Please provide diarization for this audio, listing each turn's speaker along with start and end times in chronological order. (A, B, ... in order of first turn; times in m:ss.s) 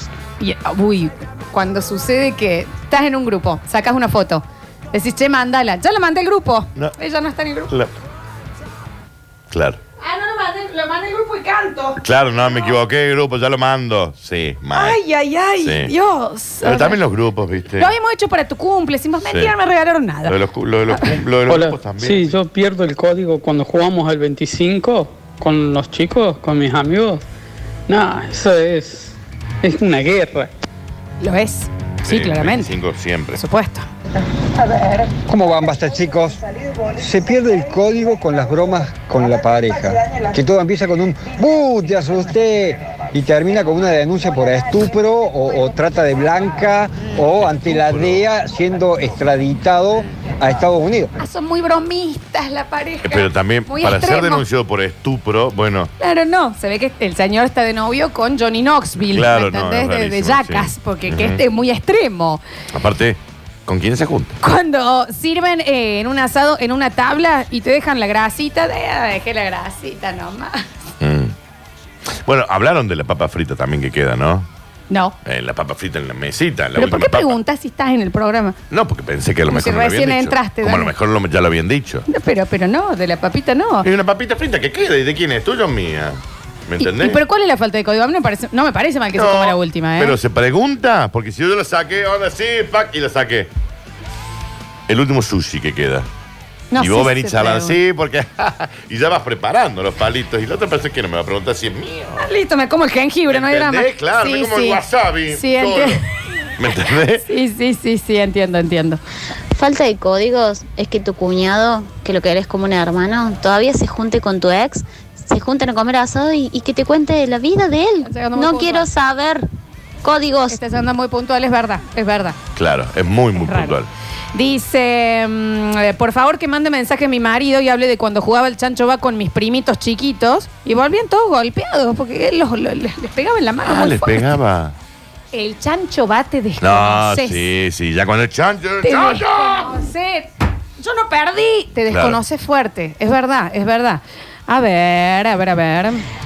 0:00.4-0:07.7 A
0:09.5-0:09.8 B
0:10.0-0:12.7 A
0:12.0-0:15.0 B
0:14.8-0:17.0 A
0:15.6-0:15.9 B
0:16.6-0:17.9 B
0:17.8-0:20.4 A
0:19.3-0:19.5 B
0:20.3-0:22.4 B
0:22.1-0:27.2 C
0:27.9-0:29.1 C
0:29.7-0:30.5 C
0:31.2-0:32.7 A
0:32.1-0:33.4 B
0:33.3-0:33.8 A
0:35.3-0:36.4 D
0:36.9-0:51.1 D
0:47.5-0:48.3 B
0:51.2-0:54.4 A
0:53.0-0:55.9 B
0:56.0-1:02.4 A
0:59.1-1:01.4 B
1:02.7-1:04.4 B
1:04.4-1:10.7 A
1:11.0-1:11.3 B
1:12.2-1:14.5 B
1:14.9-1:15.2 A
1:15.2-1:17.4 B
1:16.8-1:18.6 A
1:18.7-1:22.0 B
1:19.5-1:20.9 A
1:22.1-1:23.9 A
1:23.8-1:27.2 B
1:26.8-1:30.2 A
1:29.2-1:33.5 B
1:34.9-1:36.1 B
1:36.7-1:37.8 A
1:36.8-1:42.2 B
1:42.2-1:44.8 A
1:43.3-1:46.0 B
1:45.3-1:46.0 A
1:46.6-1:47.3 B
1:47.2-1:49.0 A
1:49.5-1:59.5 E
1:58.0-1:58.9 A
2:00.0-2:00.6 E
2:00.5-2:02.4 A
2:02.6-2:03.9 B
2:03.4-2:03.8 A
2:04.3-2:14.4 A
2:13.6-2:14.8 B
2:15.3-2:17.4 A
2:16.6-2:19.8 B
2:18.8-2:20.3 A
2:20.8-2:26.0 A
2:21.9-2:22.2 B